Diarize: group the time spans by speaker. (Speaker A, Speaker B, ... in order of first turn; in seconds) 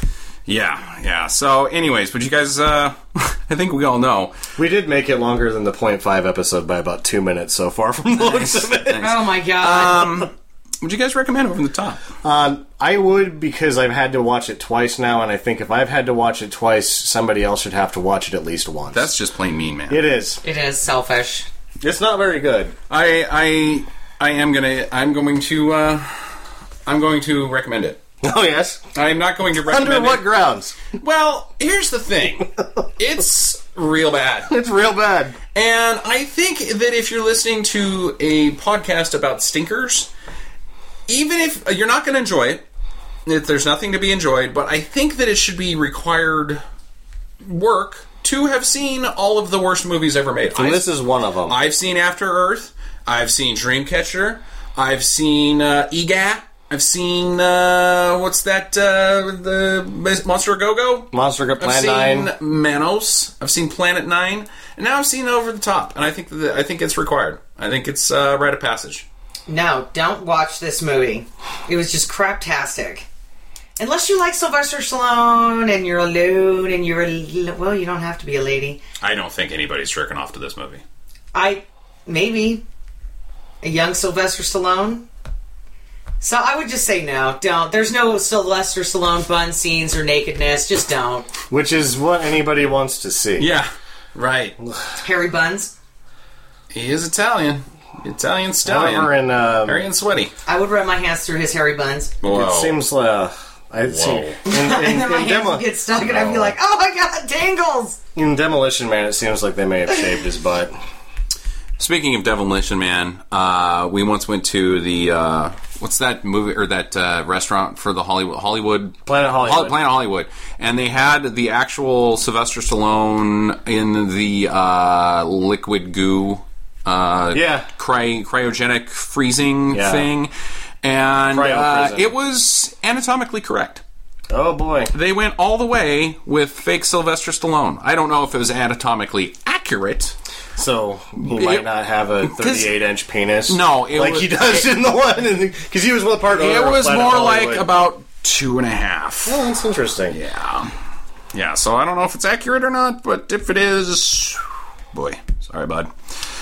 Speaker A: 0.5-4.3, 8.1-12.0, 18.9-20.0, 22.9-28.0, 28.9-30.2, 30.9-34.5, 35.5-40.1, 41.1-42.6, 43.2-46.6, 47.4-50.9, 51.5-69.0, 79.0-80.8, 93.4-94.5, 96.7-100.3, 102.2-102.8, 103.8-104.4, 111.8-130.3, 130.8-133.8, 134.9-140.1, 141.2-141.7, 142.2-142.7, 143.5-144.7, 146.3-149.4, 150.1-150.7, 151.3-155.9
Speaker B: 4.6-9.1, 12.2-19.1, 19.9-20.4, 21.8-22.7, 28.2-28.8, 29.6-30.8, 34.5-35.4, 50.5-51.5, 61.1-62.3, 91.5-93.5, 98.6-99.8, 102.3-106.5, 108.1-110.8, 119.0-119.7, 127.3-127.7, 129.7-130.1, 131.3-132.1, 134.3-134.9, 140.6-147.7, 149.2-150.2
Speaker C: 9.0-10.3, 20.4-21.5, 69.5-73.0, 73.8-78.8, 81.3-82.6, 83.6-85.1, 86.2-91.3, 95.0-95.7, 100.5-102.1, 104.5-108.0